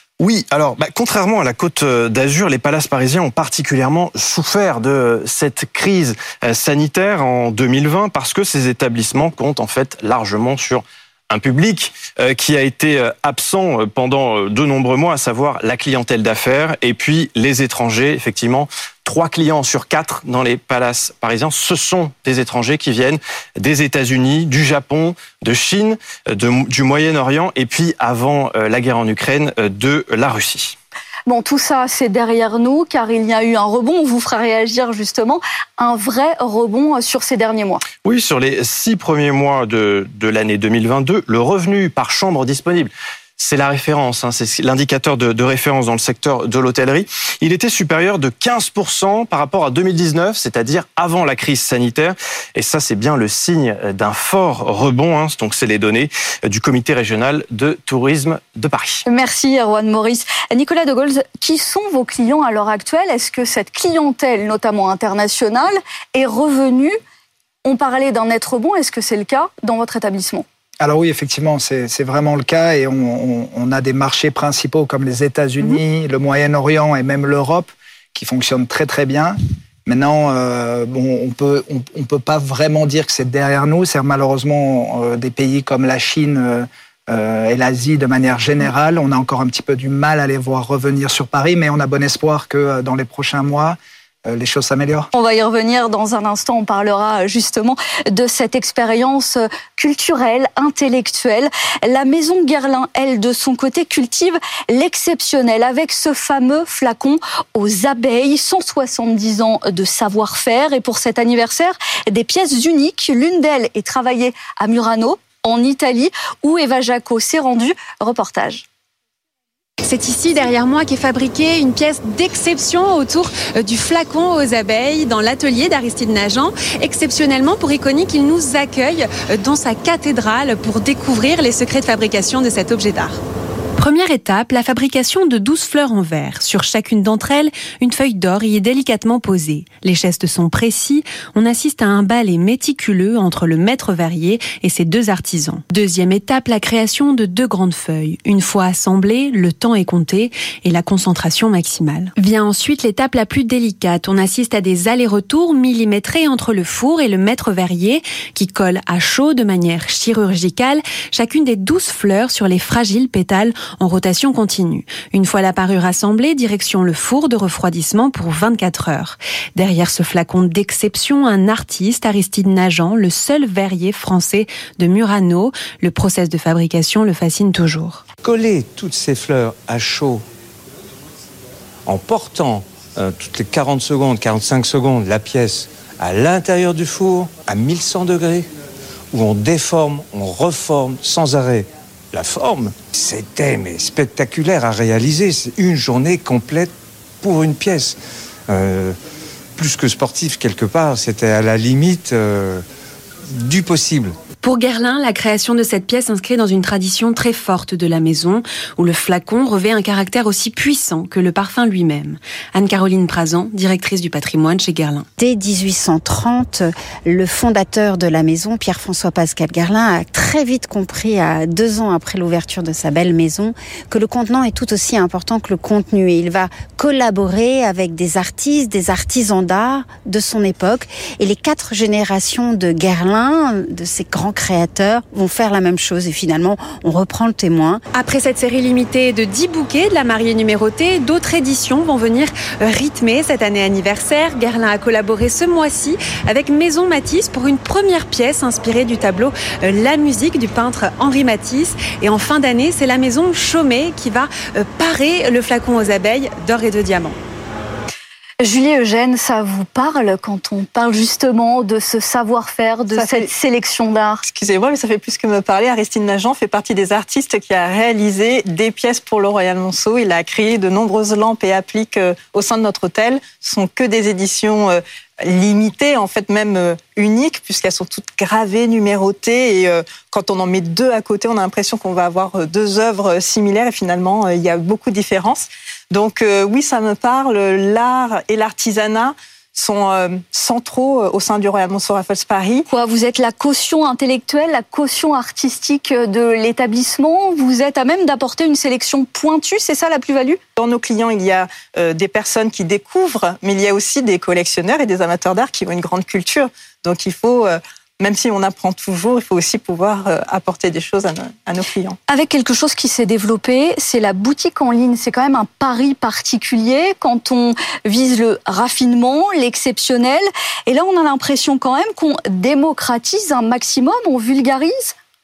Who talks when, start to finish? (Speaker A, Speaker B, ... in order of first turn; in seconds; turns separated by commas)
Speaker A: 0.2-30.8, Speaker B: 31.3-37.8, Speaker A: 38.0-59.0, Speaker B: 59.1-67.0, Speaker B: 67.6-70.4, Speaker C: 70.8-95.1, Speaker B: 95.1-118.6, Speaker D: 119.8-133.2, Speaker D: 133.8-178.0, Speaker E: 178.2-180.2, Speaker E: 181.8-188.5, Speaker E: 189.1-198.0, Speaker E: 198.5-198.9, Speaker E: 199.6-202.6, Speaker E: 203.3-204.2, Speaker D: 204.4-215.1, Speaker F: 215.2-237.8, Speaker D: 237.9-257.1, Speaker B: 258.4-264.2, Speaker G: 262.9-263.3, Speaker G: 264.2-292.7, Speaker B: 292.7-300.4, Speaker G: 300.6-312.0, Speaker B: 312.1-324.9